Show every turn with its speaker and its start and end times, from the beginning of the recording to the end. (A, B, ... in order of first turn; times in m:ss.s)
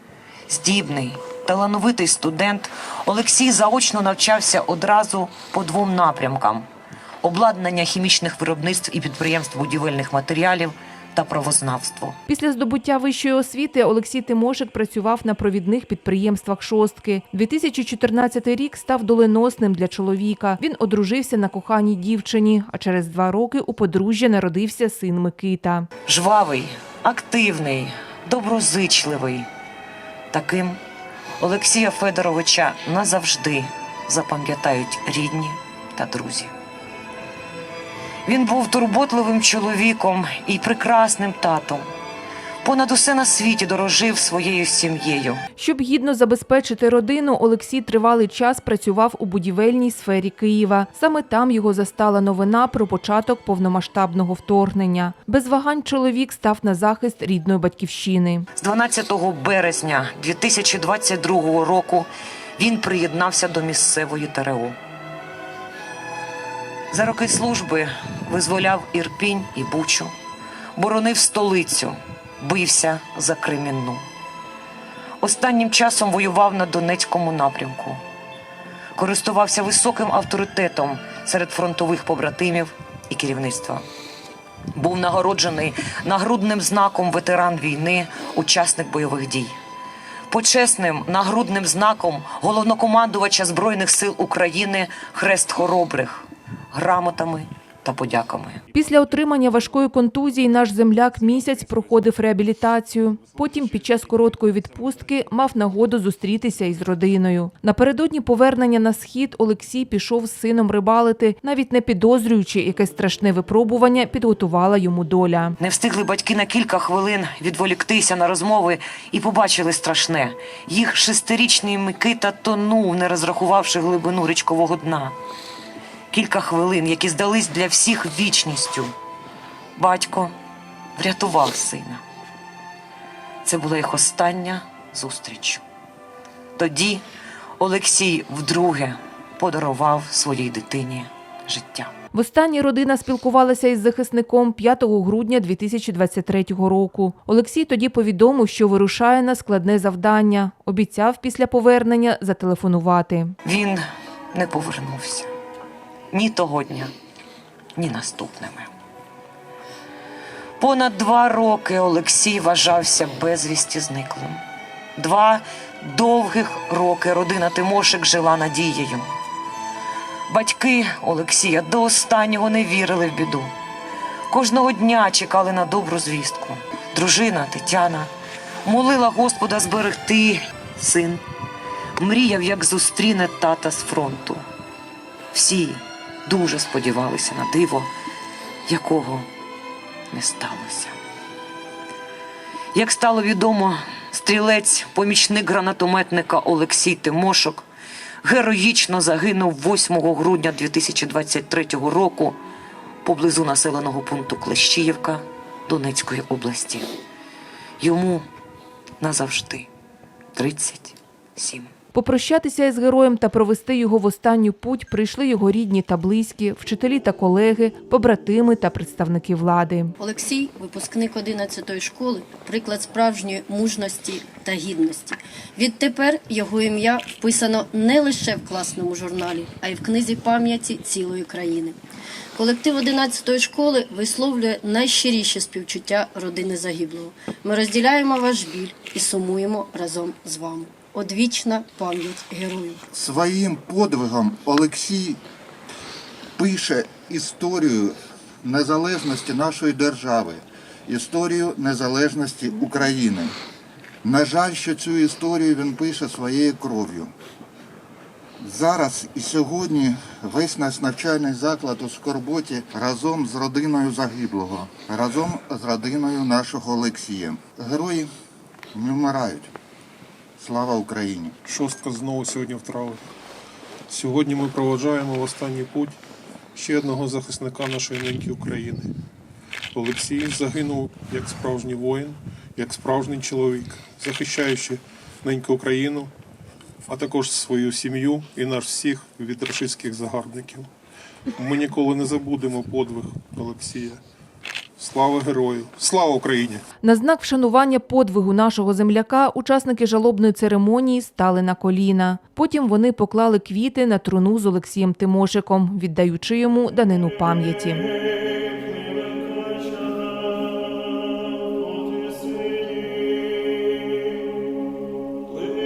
0:00.5-0:06.6 A
0:07.2-0:12.2 A
0:12.3-0:25.9 B
0:26.1-0:29.5 A
0:30.3-0:30.8 A
0:31.4-0:36.5 A
0:38.2-0:41.8 A
0:42.6-0:45.4 A
0:45.6-0:58.5 B
0:58.6-1:04.8 A
1:06.9-1:10.1 A
1:10.8-1:14.0 A
1:15.2-1:18.0 A
1:19.0-1:23.8 A
1:24.7-1:29.5 A
1:30.3-1:38.6 A
1:38.7-1:55.6 B
1:55.6-2:05.1 A
2:06.1-2:08.9 A
2:09.8-2:10.3 A
2:11.0-2:12.0 A
2:13.4-2:15.6 A
2:16.6-2:17.0 A
2:17.6-2:21.9 A
2:22.1-2:33.4 B
2:33.4-2:35.3 A
2:36.1-2:36.9 A
2:37.8-2:38.7 A
2:40.6-2:44.4 A
2:45.0-2:49.1 A
2:50.3-2:53.5 A
2:54.3-2:58.1 A
2:58.6-3:01.2 A
3:02.0-3:04.4 A
3:05.3-3:07.9 A
3:08.7-3:09.3 A
3:10.1-3:11.0 A
3:12.7-3:17.6 A
3:18.2-3:22.4 A
3:23.0-3:26.9 A
3:27.8-3:28.2 A
3:29.0-3:29.7 A
3:30.3-3:31.7 A
3:31.9-3:39.9 B
3:40.0-3:51.8 C
3:52.3-4:02.8 C
4:02.9-4:05.2 D
4:06.4-4:13.3 D
4:14.0-4:17.1 D
4:18.4-4:28.1 D
4:28.7-4:29.5 D
4:30.4-4:31.3 D
4:31.4-4:33.1 E
4:33.9-4:36.0 E
4:36.5-4:38.9 E
4:39.7-4:46.1 E
4:46.9-4:50.7 E
4:51.4-4:54.0 E
4:54.8-4:56.6 E
4:56.8-5:07.9 B